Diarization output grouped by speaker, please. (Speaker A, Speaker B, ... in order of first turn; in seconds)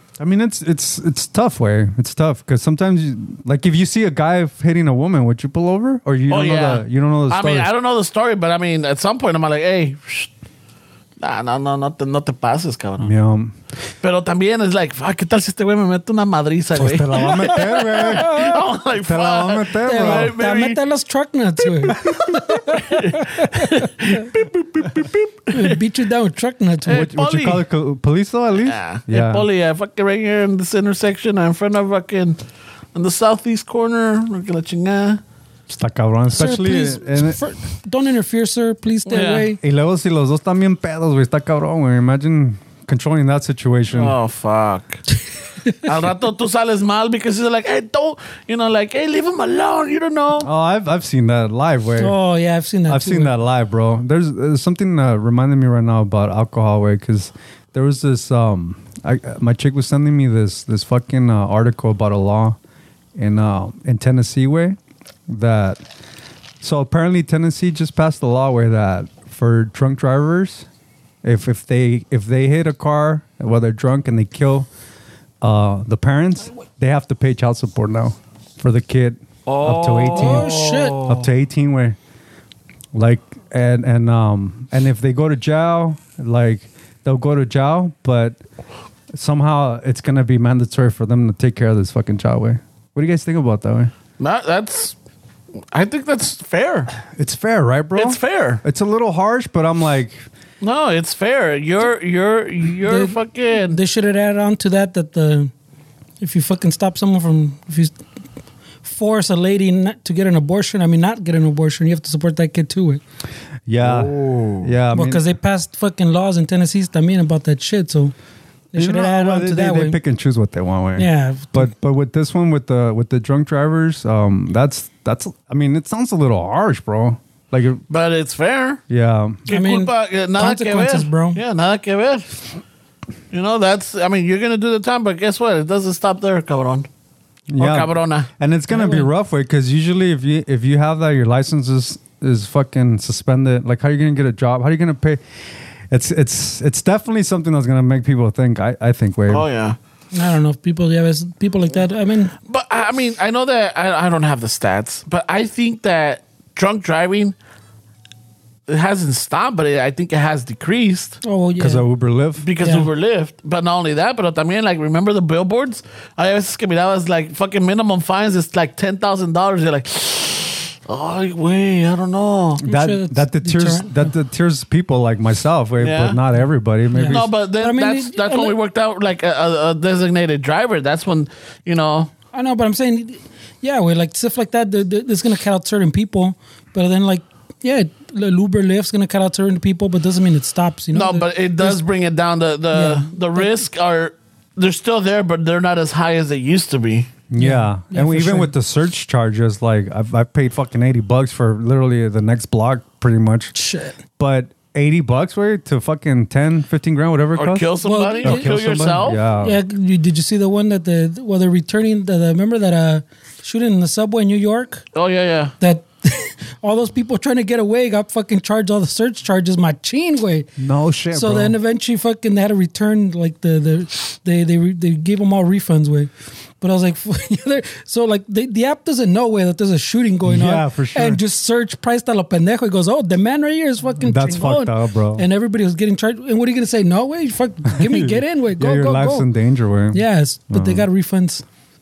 Speaker A: 0.2-7.7, 13.0-13.5, 16.7-20.3, 26.9-29.5, 35.7-37.4, 39.6-44.1, 50.4-52.1, 52.9-62.6, 63.1-64.8, 65.3-65.8, 66.6-70.7, 71.2-74.7, 75.4-80.5, 81.0-82.0, 82.9-88.4, 89.1-93.9, 97.1-100.3, 113.7-115.2, 118.7-127.8, 128.9-129.4, 137.5-145.2, 145.9-149.4, 161.6-162.5, 172.6-177.3, 197.3-203.5, 204.2-209.6, 220.6-221.6, 230.2-231.2, 234.0-235.2, 237.7-240.8
Speaker B: 6.3-10.3, 11.2-13.1, 14.0-20.8, 21.9-25.8, 26.9-27.6, 28.6-32.4, 32.9-35.2, 39.1-39.5, 43.9-45.0, 45.8-50.5, 79.5-81.2, 94.2-94.9, 95.7-96.9, 98.0-98.6, 100.6-103.8, 113.8-114.7, 127.9-128.8, 129.4-132.4, 133.3-136.9, 137.6-138.3, 149.3-149.8, 152.5-157.3, 158.7-161.2, 162.4-172.6, 175.8-176.2, 177.1-182.1, 190.9-197.1, 207.3-209.2, 214.9-215.5
Speaker C: 17.5-18.5, 19.8-24.3, 25.5-27.1, 36.3-39.6, 52.0-53.3, 80.1-81.0, 102.8-105.5, 106.2-108.0, 108.8-113.0, 114.9-118.1, 118.7-120.0, 121.0-121.7, 129.5-131.4, 138.7-139.1, 150.1-152.3, 161.2-161.9, 162.6-162.9, 172.6-174.1, 176.9-178.5, 182.3-191.8, 192.7-193.6, 197.4-198.5, 203.5-203.9, 207.8-208.5, 209.4-214.8, 215.6-220.5, 221.1-226.1, 226.6-239.3, 239.9-241.4